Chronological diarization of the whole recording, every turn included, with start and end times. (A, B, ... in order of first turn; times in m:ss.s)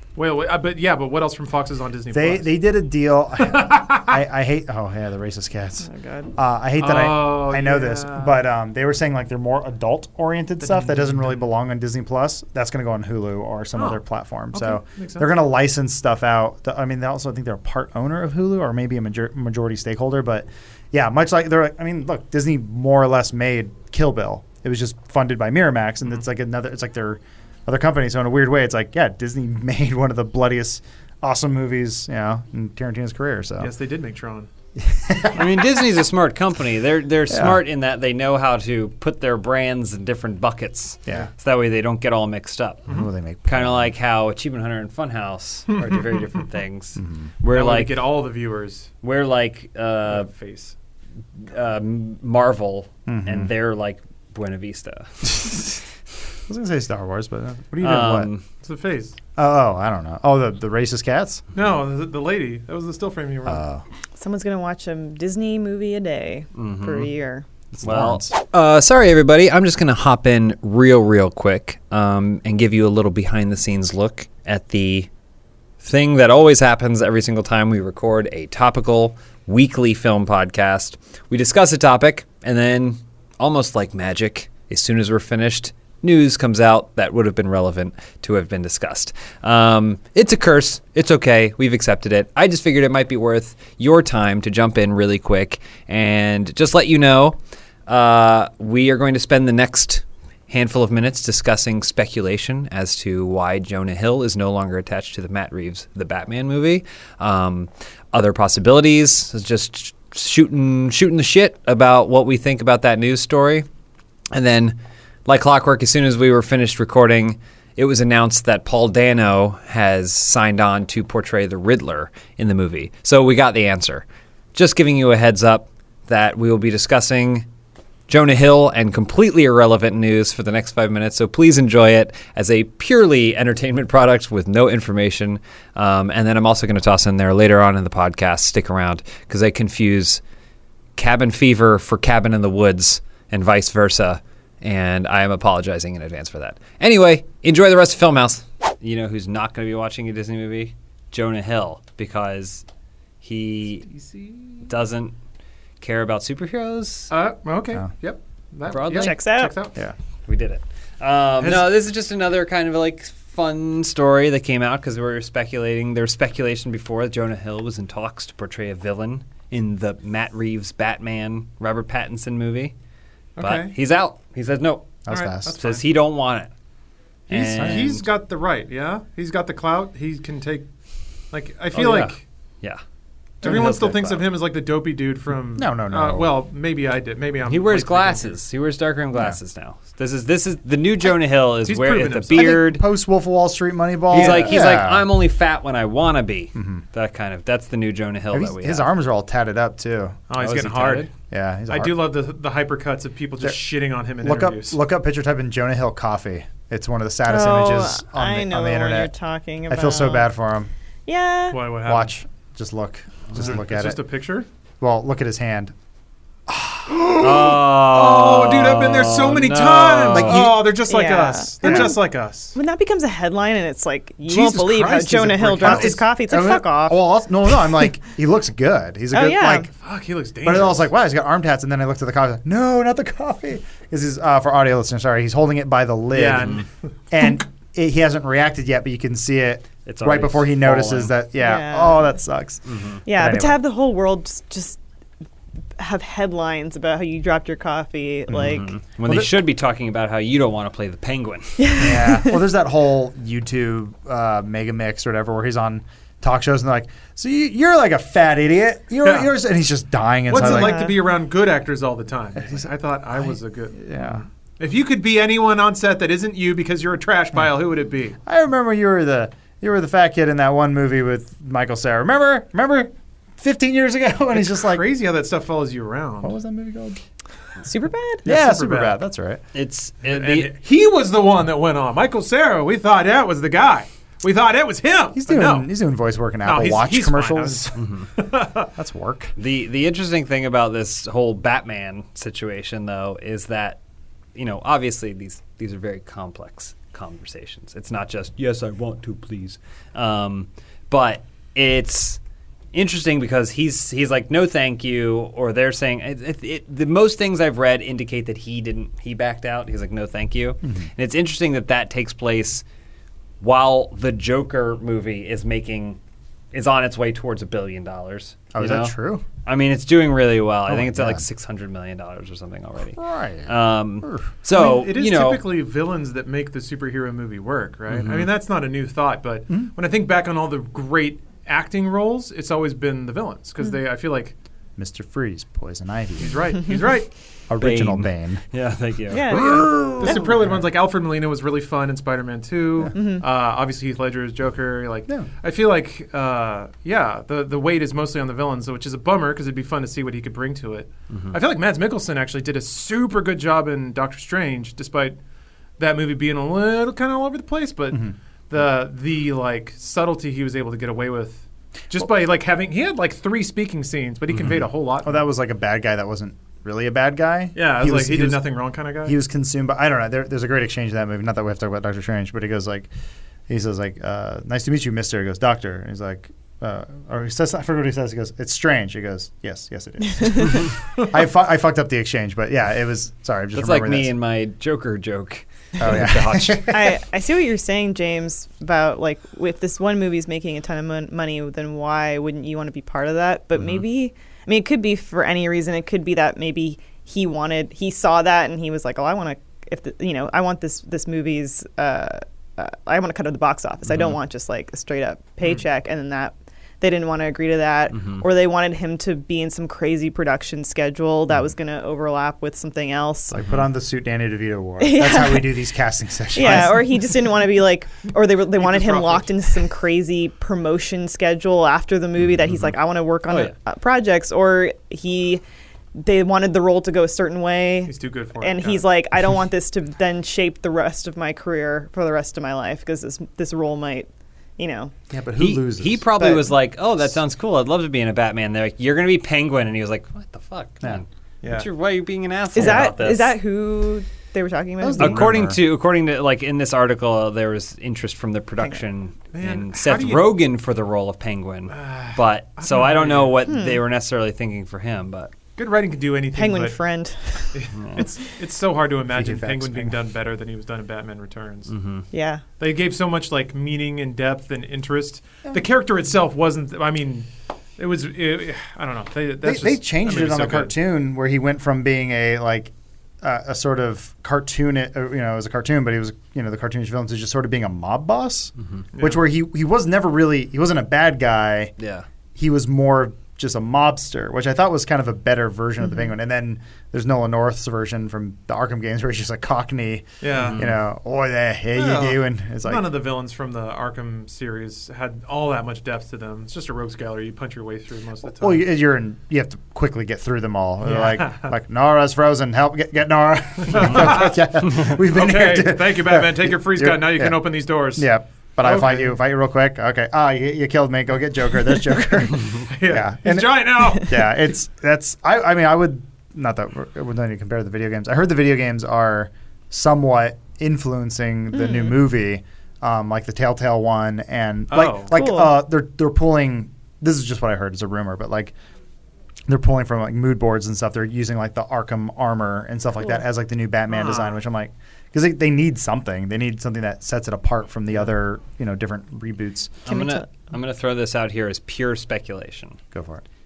0:00.1-0:02.5 A
0:02.1-0:33.7 B
0:03.4-0:04.2 A
0:05.8-0:06.3 C
0:06.8-0:08.4 A
0:10.6-0:11.5 A
0:13.8-0:15.3 A
0:33.6-0:34.5 A
0:34.8-0:35.8 B
0:35.3-0:48.0 D
0:37.3-0:37.6 B
0:42.9-0:43.9 B
0:45.7-0:46.2 A
0:47.0-0:47.3 B
0:47.5-0:48.9 A
0:49.0-0:50.3 D
0:50.0-0:50.7 A
0:51.4-0:55.4 D
0:53.1-0:53.5 B
0:55.2-0:55.8 B
0:56.5-0:58.3 B
0:57.8-0:58.4 D
0:58.6-0:59.2 A
0:59.4-1:01.4 B
1:01.5-1:03.6 A
1:03.4-1:03.8 B
1:04.2-1:07.5 C
1:06.5-1:07.1 D
1:07.7-1:08.3 B
1:07.8-1:15.1 D
1:15.8-1:53.7 D
1:54.3-2:07.5 D
2:08.1-2:20.2 D
2:21.0-2:32.6 D
2:33.2-2:33.9 D
2:33.9-2:34.6 A
2:34.6-2:35.1 D
2:35.8-2:37.1 D
2:37.1-2:39.8 A
2:38.7-2:39.2 D
2:39.0-2:39.5 C
2:40.3-2:52.7 D
2:41.4-2:41.7 A
2:53.4-2:53.7 A
2:53.4-2:56.5 D
2:55.0-2:55.6 B
2:55.1-2:55.8 A
2:57.3-2:58.0 D
2:57.3-3:00.7 A
2:57.6-2:58.0 B
3:01.3-3:02.2 A
3:01.7-3:02.8 D
3:03.4-3:04.2 B
3:03.4-3:08.4 A
3:05.5-3:06.3 B
3:07.4-3:12.8 D
3:11.6-3:12.6 A
3:12.3-3:15.1 B
3:14.1-3:18.9 D
3:14.1-3:14.6 A
3:16.5-3:16.8 B
3:18.3-3:20.2 B
3:20.3-3:21.1 A
3:20.4-3:21.1 D
3:21.3-3:22.0 B
3:21.7-3:24.8 A
3:24.2-3:29.1 B
3:27.3-3:30.3 C
3:29.7-3:30.7 B
3:31.0-3:31.6 C
3:31.5-3:32.1 A
3:31.8-3:34.0 B
3:33.3-3:34.5 A
3:34.8-3:35.7 B
3:36.5-3:37.0 B
3:37.0-3:42.6 A
3:37.1-3:40.5 D
3:40.1-3:40.7 B
3:40.8-3:42.0 C
3:41.6-3:41.9 B
3:42.5-3:47.0 C
3:44.2-3:46.0 A
3:45.6-3:49.7 B
3:49.1-3:49.7 C
3:49.8-3:50.9 A
3:50.4-4:03.6 B
3:56.1-3:56.7 A
3:59.9-4:01.1 D
4:01.4-4:02.2 C
4:02.6-4:03.0 D
4:03.0-4:04.8 C
4:05.8-4:08.7 C
4:08.3-4:09.3 B
4:08.4-4:11.7 D
4:11.6-4:12.4 C
4:11.8-4:20.8 B
4:19.0-4:19.3 A
4:20.3-4:28.2 A
4:20.3-4:21.0 C
4:23.2-4:24.2 B
4:28.2-4:34.8 B
4:34.3-4:36.3 A
4:36.2-4:37.0 B
4:37.6-4:38.2 C
4:38.2-4:39.0 A
4:38.2-4:39.4 B
4:39.5-4:40.5 D
4:40.0-4:45.7 A
4:45.2-4:47.7 B
4:46.4-4:48.7 A
4:47.8-4:48.1 D
4:48.7-4:49.3 B
4:49.4-4:53.8 D
4:54.3-5:02.2 D
5:02.7-5:12.6 D
5:10.6-5:10.9 B
5:13.4-5:16.0 D
5:16.5-5:25.4 D
5:18.5-5:19.2 B
5:20.7-5:21.2 B
5:22.9-5:24.3 B
5:24.5-5:34.3 A
5:27.9-5:28.3 D
5:34.8-5:36.6 B
5:36.2-5:37.1 A
5:37.5-5:38.4 B
5:37.6-5:39.4 D
5:39.1-5:40.2 C
5:39.3-5:40.6 B
5:39.3-5:55.2 A
5:42.9-5:43.2 C
5:51.1-5:51.4 D
5:55.8-6:05.2 A
6:05.0-6:08.5 B
6:07.5-6:09.2 A
6:09.0-6:12.9 B
6:13.5-6:24.1 B
6:20.2-6:20.5 C
6:23.5-6:26.7 D
6:25.8-6:27.0 B
6:26.7-6:53.4 C
6:47.9-6:48.2 D
6:53.3-6:57.0 B
6:54.8-6:55.6 C
6:56.3-7:05.4 C
6:58.5-6:59.4 A
7:03.3-7:03.5 D
7:06.0-7:14.9 C
7:07.9-7:08.9 A
7:15.1-7:16.4 B
7:15.4-7:23.4 D
7:21.4-7:21.7 A
7:22.5-7:25.3 C
7:24.8-7:25.6 B
7:25.0-7:35.3 D
7:29.3-7:30.4 A
7:31.7-7:33.4 A
7:33.4-7:33.8 C
7:35.6-7:36.8 A
7:36.3-7:38.1 C
7:37.5-7:41.7 A
7:37.7-7:38.0 D
7:39.1-7:40.0 B
7:41.7-7:42.0 D
7:42.1-7:42.4 C
7:42.6-7:50.8 A
7:49.4-8:01.7 B
7:58.9-7:59.2 A
8:01.8-8:02.0 D
8:02.3-8:12.9 B
8:10.2-8:10.6 A
8:10.4-8:10.7 D
8:11.7-8:18.6 A
8:18.4-8:27.4 B
8:20.8-8:21.5 A
8:23.6-8:28.1 A
8:27.9-8:48.5 B
8:28.6-8:29.1 A
8:32.7-8:34.4 A
8:41.5-8:42.0 C
8:44.7-8:45.2 A
8:45.1-8:45.6 C
8:49.5-8:59.8 B
8:53.9-8:54.4 A
8:59.8-9:02.8 D
8:59.9-9:00.3 C
9:02.9-9:03.2 B